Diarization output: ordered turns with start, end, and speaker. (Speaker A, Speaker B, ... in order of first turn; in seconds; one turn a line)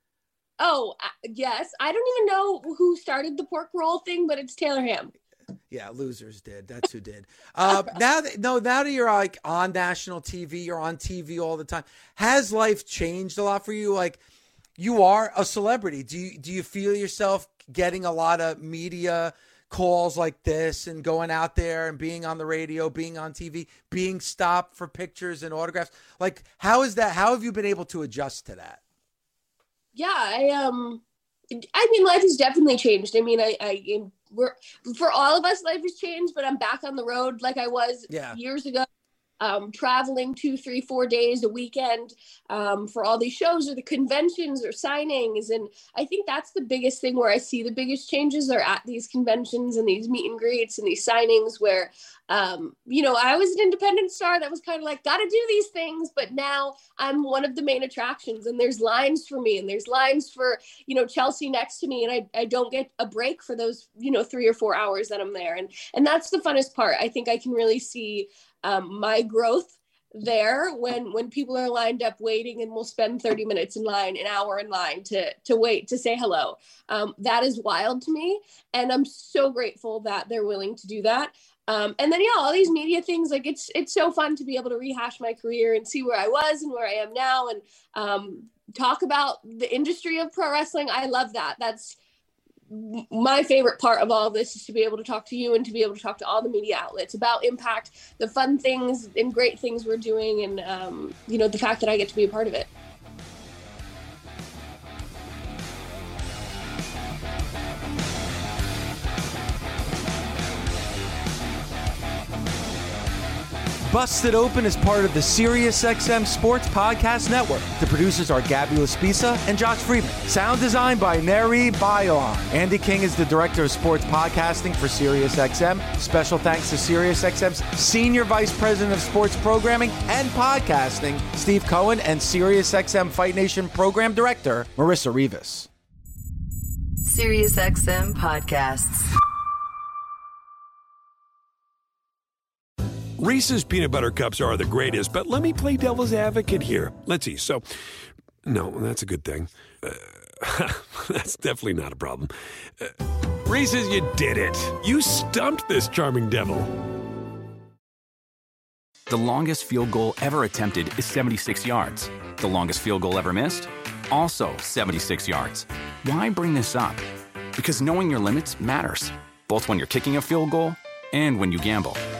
Speaker A: 0.6-5.1
Speaker B: 5.7-14.2
Speaker B: 14.8-28.8
Speaker A: 29.9-31.0
Speaker A: 31.6-38.9
Speaker B: 38.1-38.4
Speaker A: 39.4-92.0
Speaker A: 92.7-102.7
Speaker B: 113.9-135.7
Speaker C: 137.0-139.1
Speaker D: 143.2-147.6
Speaker D: 148.4-156.8
Speaker E: 159.1-167.0
Speaker E: 167.6-172.0